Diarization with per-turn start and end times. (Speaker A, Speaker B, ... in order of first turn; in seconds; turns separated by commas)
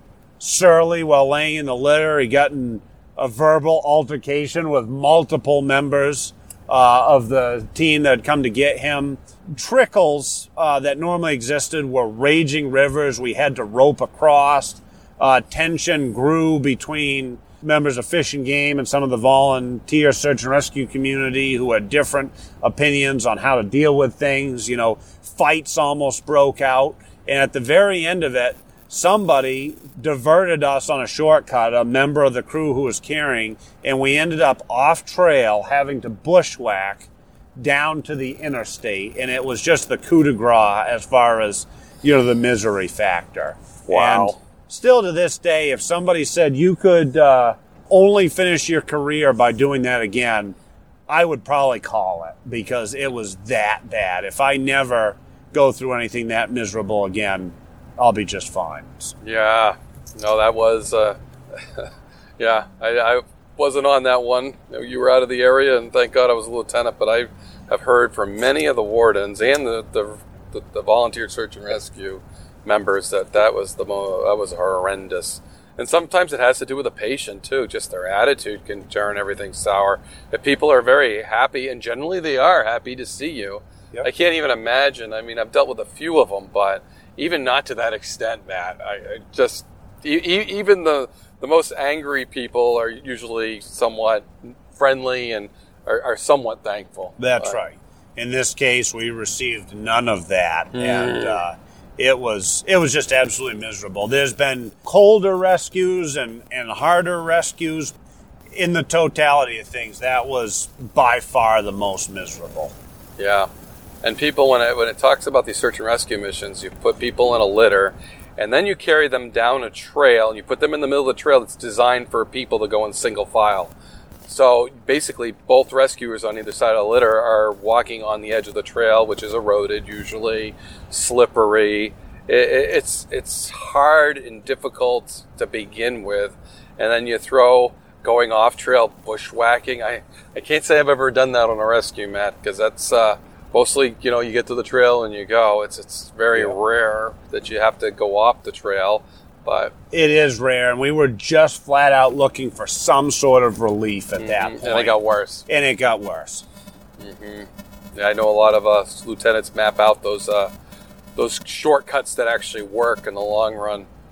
Speaker A: 0.4-50.6, Speaker B: 43.9-44.4, Speaker A: 51.1-59.1, Speaker B: 59.2-97.5, Speaker A: 97.2-108.0, Speaker B: 100.8-101.4, Speaker A: 108.5-112.7, Speaker B: 113.2-113.5, Speaker B: 114.0-123.7, Speaker B: 124.3-149.7, Speaker A: 149.9-156.4, Speaker B: 154.2-155.4, Speaker B: 157.0-160.5, Speaker B: 161.2-163.9